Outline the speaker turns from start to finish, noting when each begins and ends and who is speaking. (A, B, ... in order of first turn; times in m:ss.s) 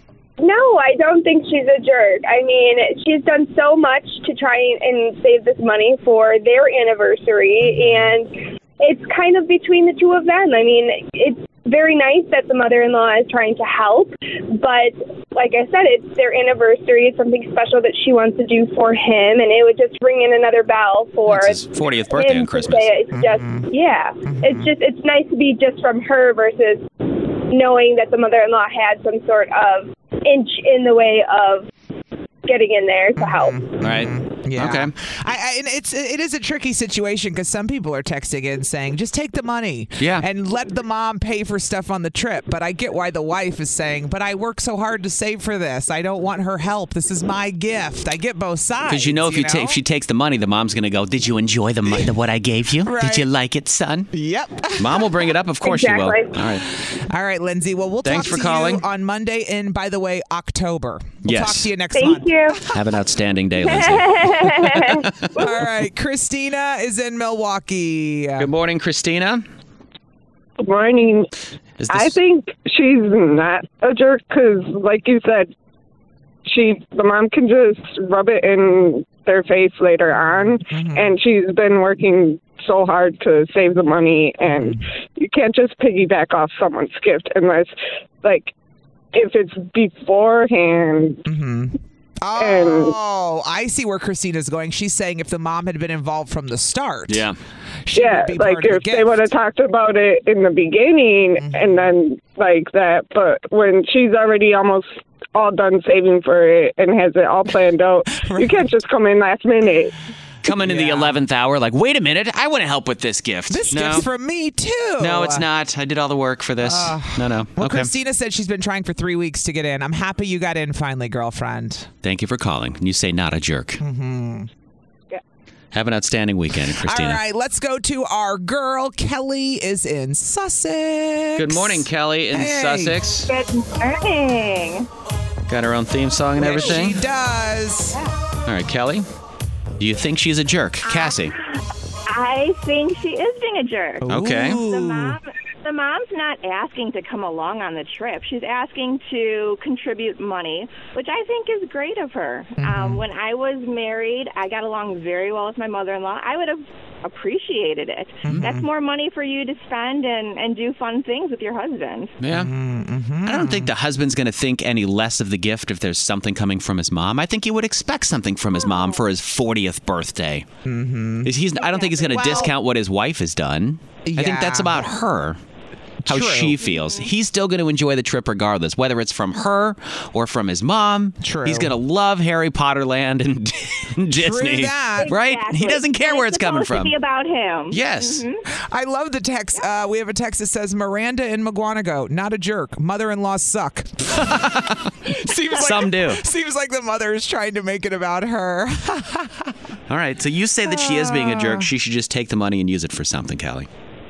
0:00.4-0:31.7 A
0:21.3-0:22.9 B
0:23.1-0:23.7 C
0:24.2-0:24.7 C
0:32.4-0:33.6 A
0:33.2-0:49.8 C
0:33.8-0:34.9 B
0:40.0-0:40.2 B
0:48.9-0:54.1 B
0:52.8-0:53.3 C
0:54.1-0:55.1 C
0:54.8-0:56.6 B
0:55.6-0:56.4 A
0:56.4-1:02.8 C
0:58.0-0:58.8 B
1:01.2-1:01.7 B
1:01.9-1:02.6 A
1:02.7-1:05.7 B
1:03.6-1:05.0 A
1:05.4-1:08.5 C
1:08.4-1:09.4 B
1:10.6-1:11.3 D
1:11.8-1:12.2 B
1:11.9-1:15.5 D
1:16.5-1:28.5 D
1:20.1-1:21.2 C
1:24.5-1:24.8 C
1:29.1-1:31.2 D
1:31.3-1:37.3 C
1:32.4-1:32.9 D
1:37.1-1:37.4 B
1:37.9-1:39.2 C
1:38.0-1:49.9 D
1:41.4-1:41.9 C
1:48.2-1:48.8 C
1:50.4-1:54.1 B
1:50.5-1:51.2 C
1:53.5-1:55.5 C
1:55.0-1:57.9 B
1:56.6-2:01.9 C
2:02.0-2:03.8 B
2:03.8-2:04.5 C
2:05.7-2:07.2 B
2:06.6-2:13.0 C
2:11.4-2:13.3 B
2:13.3-2:14.9 E
2:15.5-2:17.0 B
2:16.4-2:18.0 C
2:18.4-2:19.1 B
2:19.8-2:21.3 B
2:20.8-2:21.3 E
2:22.1-2:42.1 E
2:24.0-2:25.2 C
2:24.1-2:24.6 B
2:32.6-2:33.0 C
2:38.3-2:38.7 C
2:42.2-2:42.5 B
2:42.3-2:43.7 C
2:43.2-2:50.5 B
2:50.6-2:51.3 C
2:51.2-2:55.4 B
2:51.6-2:52.3 E
2:52.1-2:52.5 C
2:54.0-2:55.0 C
2:56.0-2:56.6 C
2:56.1-3:07.0 B
2:56.7-2:57.1 E
3:01.2-3:01.7 C
3:04.2-3:05.2 C
3:05.0-3:08.4 E
3:07.7-3:08.2 B
3:08.7-3:19.5 C
3:15.5-3:16.2 B
3:19.9-3:23.7 B
3:20.7-3:21.6 C